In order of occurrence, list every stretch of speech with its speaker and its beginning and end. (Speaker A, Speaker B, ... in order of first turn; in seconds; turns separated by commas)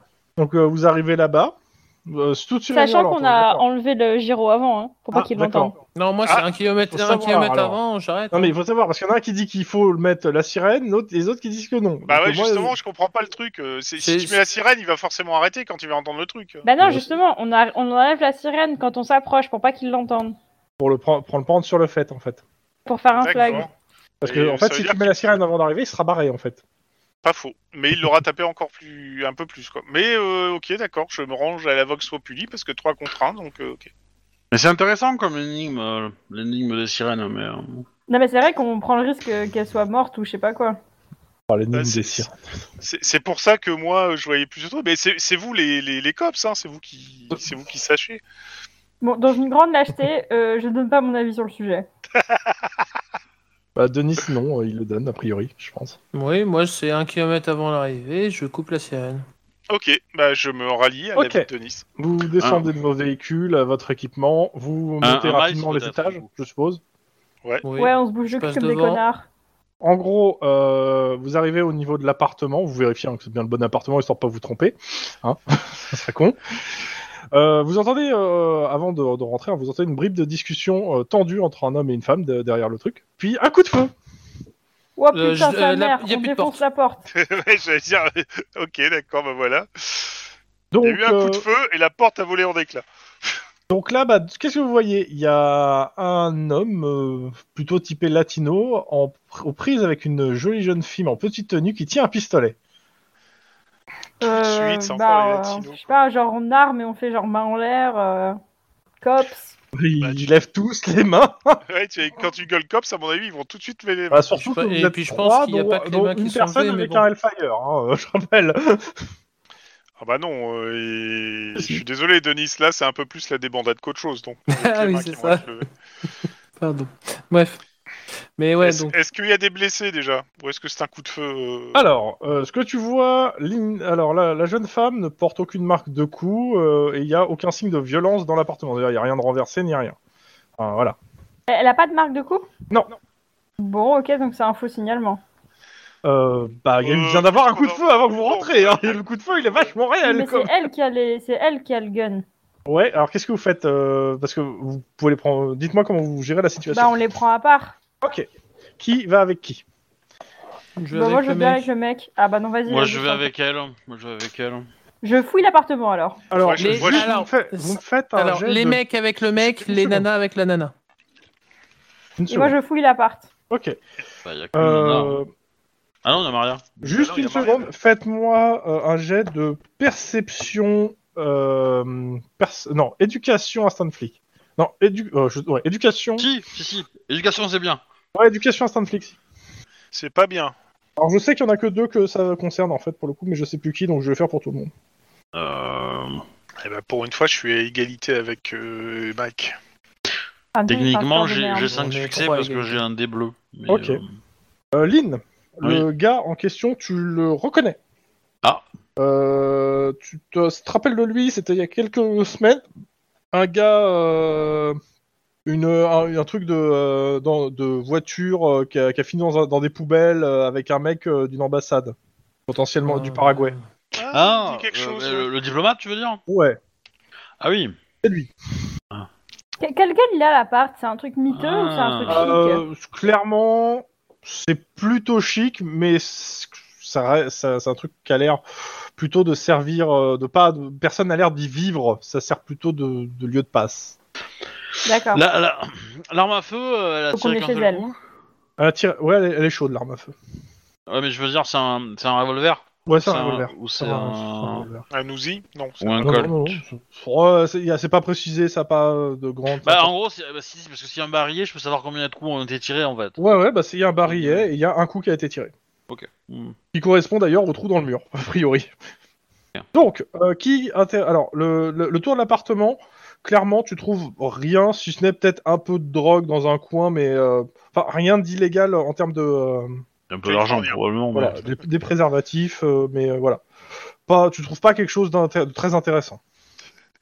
Speaker A: 0.4-3.6, Speaker B: 2.7-5.7, Speaker A: 5.1-5.8, Speaker C: 5.9-8.5, Speaker A: 6.9-7.8, Speaker A: 8.3-12.7, Speaker D: 12.1-16.6, Speaker C: 14.0-14.4, Speaker B: 16.6-20.4, Speaker A: 16.8-17.1, Speaker A: 20.8-22.4, Speaker B: 22.9-23.7, Speaker D: 23.1-23.7, Speaker A: 24.2-26.6, Speaker D: 24.2-25.3, Speaker D: 27.2-33.9, Speaker E: 34.5-37.9, Speaker B: 38.1-40.8, Speaker A: 41.5-42.3, Speaker D: 41.7-42.2, Speaker D: 42.8-48.2, Speaker B: 49.0-51.9, Speaker D: 52.2-52.5, Speaker A: 53.8-56.0, Speaker C: 56.1-59.2, Speaker D: 59.7-61.9, Speaker A: 61.1-66.8, Speaker E: 62.4-62.7, Speaker E: 65.0-66.3, Speaker C: 67.6-69.0, Speaker B: 67.8-69.2, Speaker A: 69.8-76.4, Speaker A: 77.3-83.9, Speaker B: 85.0-87.1, Speaker C: 85.1-86.6, Speaker D: 87.1-90.2, Speaker A: 90.7-91.4, Speaker D: 90.8-92.8, Speaker A: 93.7-102.5, Speaker B: 104.2-108.4, Speaker D: 104.2-105.9, Speaker B: 109.0-109.5, Speaker A: 109.7-111.6, Speaker D: 111.7-114.3, Speaker A: 114.1-119.1, Speaker C: 114.3-117.0, Speaker D: 120.0-125.7, Speaker A: 121.5-121.8, Speaker C: 124.5-125.5, Speaker C: 126.6-127.6, Speaker C: 128.4-129.0, Speaker D: 128.6-131.9, Speaker A: 131.7-140.0, Speaker A: 140.6-141.0, Speaker B: 141.5-142.5, Speaker A: 142.7-143.0, Speaker B: 143.6-145.2, Speaker A: 146.0-150.6, Speaker D: 146.8-149.7, Speaker B: 150.0-152.2, Speaker A: 152.7-156.9, Speaker B: 156.7-157.8, Speaker A: 158.0-158.3, Speaker A: 158.8-159.6, Speaker C: 160.8-161.7, Speaker B: 160.9-163.3, Speaker E: 162.7-164.7, Speaker B: 165.0-166.2, Speaker A: 166.3-168.8, Speaker D: 166.4-167.2, Speaker C: 166.6-170.7, Speaker A: 169.6-170.0, Speaker A: 172.2-172.5, Speaker B: 172.3-173.3, Speaker A: 173.5-173.8, Speaker E: 174.2-175.2, Speaker A: 174.5-175.3, Speaker E: 176.0-177.4, Speaker A: 176.8-186.3, Speaker D: 177.0-177.6, Speaker E: 186.2-187.8, Speaker A: 188.1-189.2, Speaker D: 189.9-190.5, Speaker A: 191.0-194.7, Speaker E: 195.3-196.2, Speaker D: 196.6-199.5, Speaker B: 200.5-201.8, Speaker E: 200.7-204.0, Speaker C: 201.7-202.8, Speaker A: 203.7-204.0, Speaker A: 204.7-207.8, Speaker A: 209.0-212.6, Speaker A: 213.3-214.8, Speaker A: 215.4-221.9, Speaker A: 222.5-223.5, Speaker C: 222.8-223.6, Speaker D: 223.9-225.3, Speaker E: 224.1-226.2, Speaker A: 226.3-226.6, Speaker E: 227.4-227.7, Speaker A: 228.0-228.3, Speaker B: 229.6-232.6, Speaker E: 231.3-232.3, Speaker A: 232.1-238.4, Speaker A: 238.9-243.9, Speaker B: 244.8-245.2, Speaker E: 245.1-247.9, Speaker B: 247.1-247.8, Speaker A: 248.6-250.1, Speaker E: 250.9-254.7, Speaker A: 252.9-254.8, Speaker D: 254.9-256.1, Speaker E: 255.8-256.6, Speaker A: 256.0-259.9, Speaker E: 259.6-263.2, Speaker A: 263.2-265.5, Speaker E: 264.1-264.5, Speaker E: 265.9-266.6, Speaker A: 266.7-268.7, Speaker A: 269.7-279.8, Speaker E: 280.1-281.4, Speaker D: 280.2-280.8, Speaker A: 281.1-283.4, Speaker A: 284.1-286.2